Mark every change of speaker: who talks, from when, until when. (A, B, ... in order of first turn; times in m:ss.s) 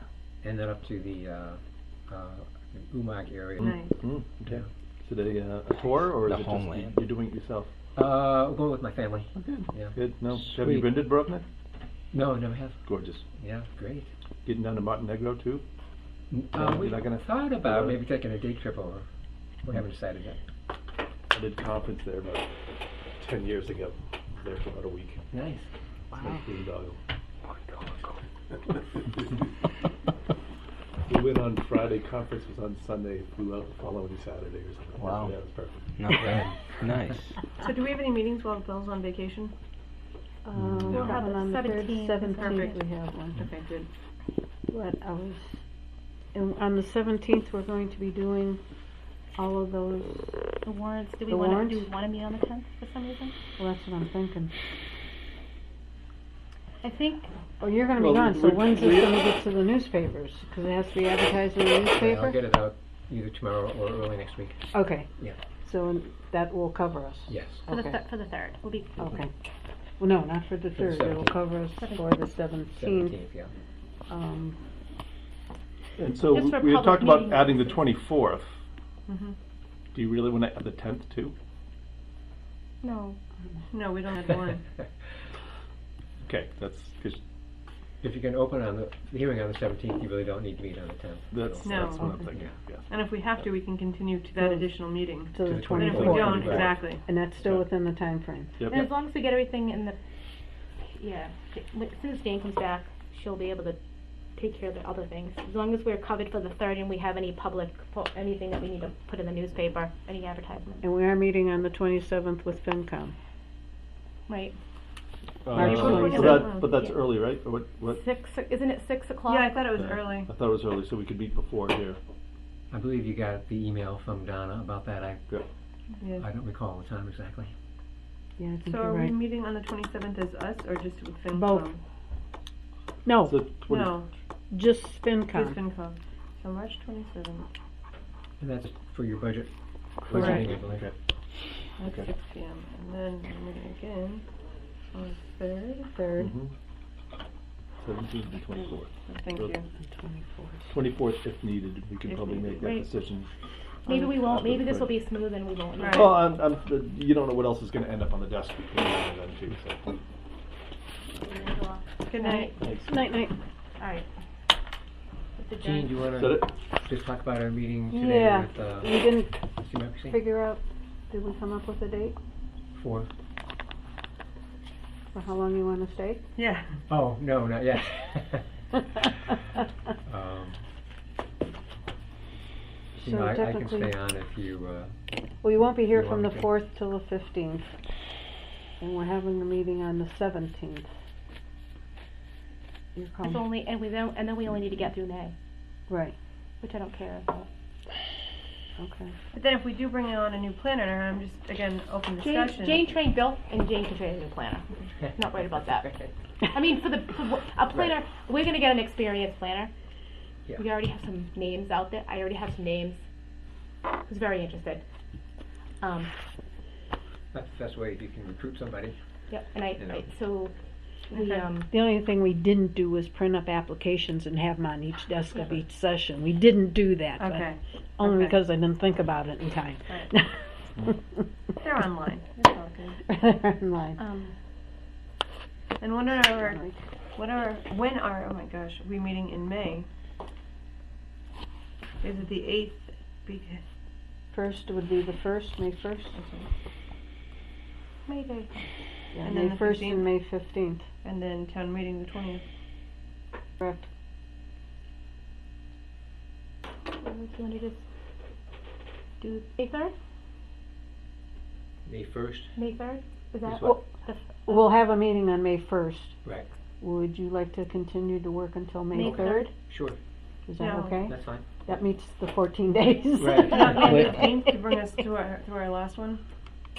0:00.4-0:03.8 A
0:03.9-0:07.7 B
0:06.0-0:07.0 C
0:08.0-0:10.0 A
0:09.4-0:09.6 D
0:09.9-0:11.4 B
0:12.1-0:12.8 A
0:12.8-0:13.2 B
0:13.3-0:14.1 A
0:14.4-0:15.6 B
0:16.3-0:19.0 A
0:16.5-0:18.0 B
0:19.6-0:20.4 A
0:21.3-0:22.5 B
0:23.2-0:25.2 B
0:25.3-0:25.7 A
0:26.2-0:27.0 B
0:27.7-0:28.1 A
0:31.1-0:36.4 B
0:35.0-0:35.3 C
0:36.0-0:37.4 C
0:37.6-0:39.5 E
0:40.4-0:43.9 D
0:40.9-0:41.2 A
0:40.9-0:42.8 F
0:42.4-0:42.7 E
0:44.7-0:45.6 D
0:46.3-0:48.6 D
0:49.4-0:50.4 D
0:50.6-0:53.3 F
0:51.3-0:51.9 D
0:53.6-0:54.5 D
0:56.8-0:57.3 F
0:57.6-1:02.4 D
0:58.0-0:59.2 B
1:01.9-1:05.4 A
1:04.7-1:05.1 D
1:05.6-1:08.0 D
1:07.3-1:07.6 A
1:07.7-1:09.0 F
1:09.0-1:09.3 D
1:10.0-1:13.2 D
1:10.8-1:11.4 A
1:11.8-1:12.1 F
1:12.7-1:13.5 A
1:14.1-1:14.6 D
1:16.0-1:18.5 B
1:16.3-1:17.8 F
1:19.1-1:19.4 E
1:19.9-1:21.3 B
1:22.8-1:23.2 F
1:23.7-1:24.6 E
1:26.2-1:27.2 B
1:28.0-1:32.5 A
1:31.3-1:32.9 B
1:31.6-1:32.0 E
1:32.0-1:32.3 D
1:32.9-1:37.0 E
1:35.2-1:38.6 D
1:35.4-1:36.8 A
1:35.9-1:36.6 B
1:37.4-1:37.6 B
1:38.6-1:38.9 B
1:38.7-1:40.0 F
1:41.0-1:43.8 F
1:44.4-1:50.8 F
1:50.8-1:53.1 D
1:54.3-1:54.5 F
1:55.4-1:58.0 B
1:55.5-1:56.5 D
1:55.6-1:57.0 F
1:56.0-1:56.8 E
1:57.9-1:59.6 F
1:59.3-2:00.3 E
1:59.7-2:02.0 B
2:02.7-2:05.2 A
2:06.0-2:06.3 E
2:06.2-2:07.5 A
2:08.4-2:09.2 D
2:08.6-2:11.8 E
2:11.3-2:11.7 D
2:13.0-2:13.4 D
2:13.2-2:14.0 B
2:13.7-2:14.1 E
2:14.5-2:15.6 D
2:15.3-2:17.5 E
2:18.4-2:19.5 A
2:20.0-2:20.9 A
2:20.1-2:20.9 B
2:21.8-2:24.2 E
2:21.8-2:22.1 B
2:24.9-2:25.9 E
2:25.9-2:26.3 D
2:26.2-2:26.5 B
2:27.8-2:29.5 B
2:28.5-2:29.7 E
2:29.8-2:30.7 D
2:30.7-2:33.3 B
2:32.6-2:32.9 F
2:33.8-2:35.0 B
2:33.8-2:36.2 F
2:35.8-2:36.1 E
2:35.9-2:40.0 B
2:41.2-2:42.5 F
2:42.1-2:42.5 E
2:42.6-2:42.9 B
2:42.8-2:43.3 D
2:43.8-2:44.0 F
2:45.4-2:46.0 F
2:45.6-2:49.0 A
2:46.1-2:46.5 B
2:47.9-2:49.4 D
2:49.6-2:50.2 A
2:50.1-2:52.2 D
2:52.7-2:53.1 A
2:55.1-2:56.2 D
2:56.4-2:56.7 E
2:56.9-2:58.5 A
3:00.0-3:00.6 A
3:03.0-3:04.9 A
3:03.0-3:03.9 D
3:05.4-3:07.7 D
3:05.9-3:06.5 A
3:08.8-3:10.9 D
3:12.9-3:13.5 D
3:13.2-3:15.3 F
3:15.9-3:16.1 D
3:16.6-3:17.5 F
3:18.8-3:19.1 D
3:19.3-3:22.8 E
3:22.2-3:25.9 F
3:25.6-3:26.1 A
3:26.5-3:29.7 F
3:30.6-3:33.0 F
3:34.0-3:34.8 F
3:35.8-3:36.1 F
3:37.3-3:39.0 A
3:39.3-3:40.5 F
3:39.8-3:40.1 A
3:41.1-3:41.7 F
3:41.1-3:41.4 E
3:41.7-3:50.4 D
3:47.2-3:48.3 E
3:51.6-3:53.0 E
3:53.1-3:54.0 D
3:54.0-3:54.3 F
3:55.8-3:56.6 E
3:56.4-3:56.8 D
3:57.1-3:59.9 E
4:02.0-4:03.6 E
4:04.3-4:06.2 D
4:06.1-4:06.5 E
4:08.1-4:08.6 F
4:09.1-4:10.9 D
4:09.2-4:10.2 E
4:11.0-4:12.4 E
4:13.6-4:13.9 D
4:17.0-4:17.8 F
4:19.2-4:19.9 F
4:21.8-4:22.5 A
4:22.6-4:24.7 F
4:23.4-4:23.8 A
4:23.6-4:23.9 D
4:24.5-4:26.2 D
4:26.8-4:29.5 D
4:28.9-4:29.5 F
4:29.0-4:30.0 A
4:30.4-4:31.1 D
4:30.6-4:31.0 E
4:31.0-4:31.4 A
4:31.6-4:34.7 D
4:33.2-4:34.2 A
4:33.3-4:36.2 E